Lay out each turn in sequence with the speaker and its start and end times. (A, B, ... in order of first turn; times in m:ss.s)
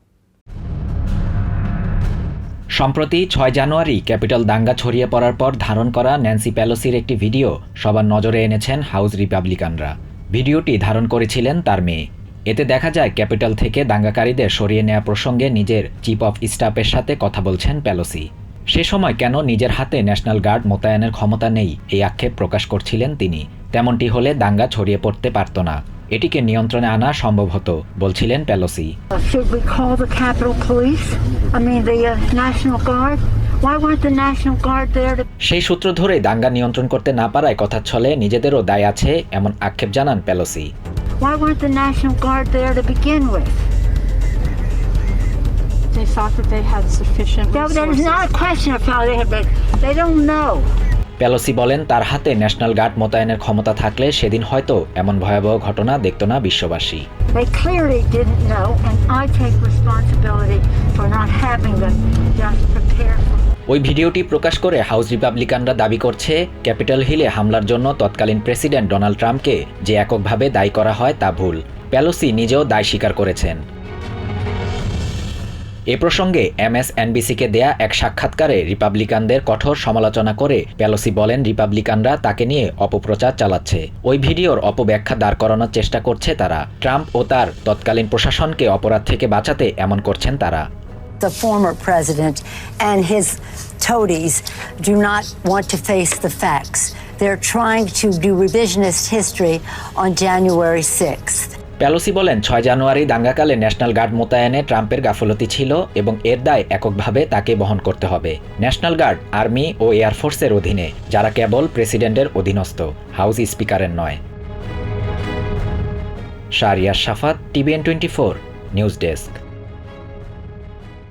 0:02.8-0:28.9 A
0:29.1-0:35.2 B
0:35.4-0:40.7 A
0:41.2-0:43.5 B
0:45.9-0:48.3 C
0:47.5-0:50.7 B
0:51.2-0:57.0 A
0:57.3-1:03.4 B
1:03.7-1:13.6 A
1:15.9-1:30.6 A
1:31.2-1:41.5 D
1:41.8-1:54.2 A
1:56.6-1:59.4 A